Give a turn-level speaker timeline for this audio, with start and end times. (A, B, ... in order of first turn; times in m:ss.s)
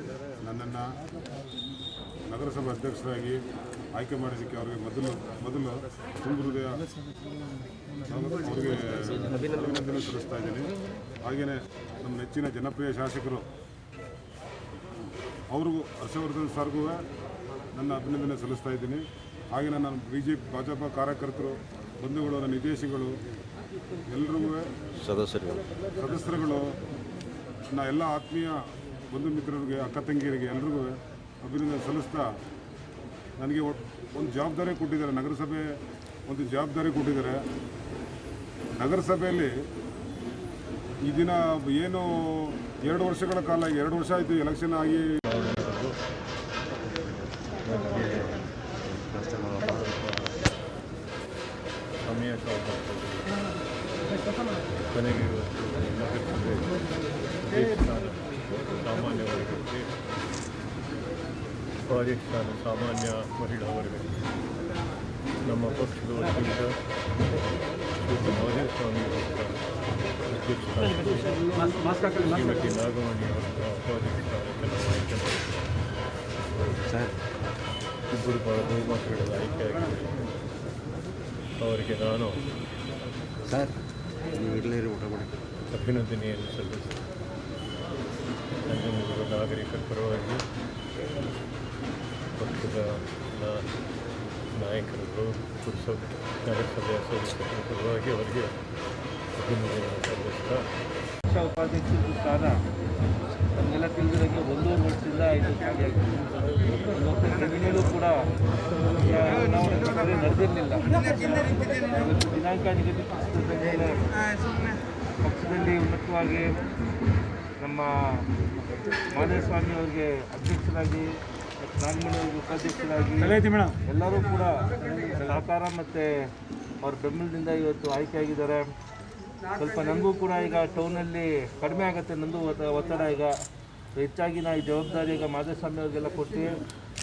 0:00.4-0:00.9 A
0:02.3-0:03.4 A
0:04.0-0:06.8 A
0:08.1-0:10.7 A
0:11.3-0:13.5 A
0:15.5-0:17.0 A
0:17.8-0:19.0 A
0:19.5-0:23.1 A
0:24.1-0:24.6 A
0:25.0-0:25.6 B
0:26.0-0:26.6 A
0:27.8-0:28.5 A
0:29.1-0:30.9 A
0:31.4-0:32.2 A
0:33.4-0:35.6 A
0:36.3-0:37.4 A
0:38.8-0:39.5 A
0:41.1-0:45.0 A
0:45.3-0:46.0 C
0:47.6-0:48.4 C
0:49.1-0:50.4 C
0:49.2-0:49.7 B
0:52.0-0:53.3 C
0:54.9-0:56.8 C
0:57.4-0:59.9 C
1:01.8-1:04.3 C
1:05.4-1:06.8 C
1:08.1-1:09.6 C
1:10.3-1:15.8 C
1:16.9-1:17.1 B
1:18.1-1:20.2 C
1:21.6-1:22.5 C
1:23.5-1:23.8 B
1:24.3-1:25.3 B
1:25.7-1:27.0 C
1:28.7-1:30.4 C
1:32.4-1:33.7 C
1:34.6-1:38.5 C
1:39.4-1:40.6 C
1:41.3-1:42.6 D
1:43.6-1:46.1 D
1:46.8-1:48.1 D
1:49.0-1:54.0 D
1:55.2-1:56.5 D
1:57.6-1:57.9 D
1:59.1-2:01.1 D
2:01.6-2:04.5 D
2:05.1-2:06.1 D
2:06.8-2:08.7 D
2:09.5-2:13.3 D
2:14.0-2:16.5 D